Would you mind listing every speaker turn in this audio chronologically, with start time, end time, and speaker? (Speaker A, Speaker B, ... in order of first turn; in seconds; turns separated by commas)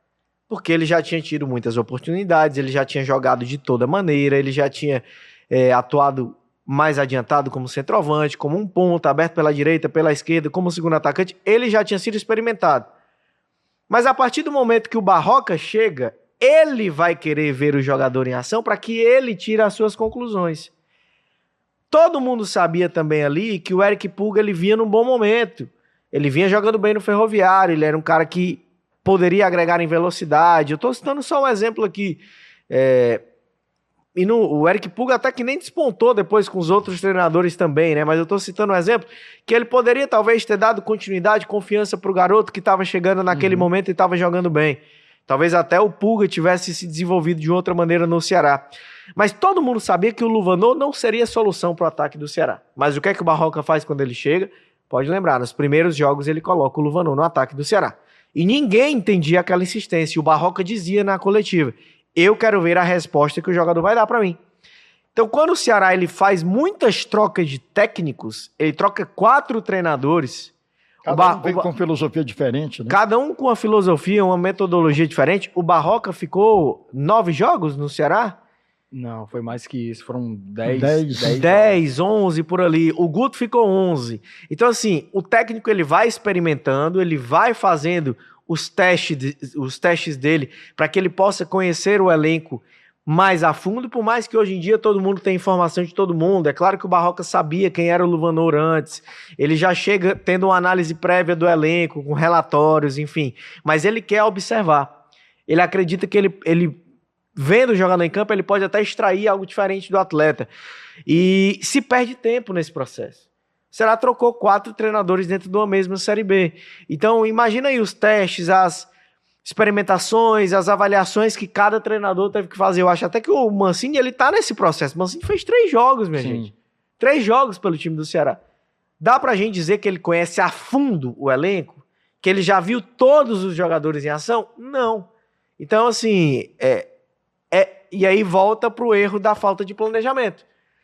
Speaker A: 0.5-12.9, Speaker A: 13.9-20.7, Speaker A: 21.9-33.2, Speaker A: 34.2-64.4, Speaker B: 43.3-43.7, Speaker A: 65.2-70.5, Speaker C: 71.0-73.0, Speaker A: 71.1-71.7, Speaker A: 72.9-78.4, Speaker B: 78.9-81.8, Speaker C: 80.7-81.4, Speaker A: 81.2-105.0, Speaker A: 105.5-106.8, Speaker A: 107.4-110.5, Speaker A: 111.1-113.2, Speaker A: 113.7-118.9, Speaker A: 119.4-126.5, Speaker B: 126.2-126.5, Speaker A: 127.0-128.4, Speaker A: 129.0-135.1, Speaker A: 135.6-136.9, Speaker A: 137.5-140.4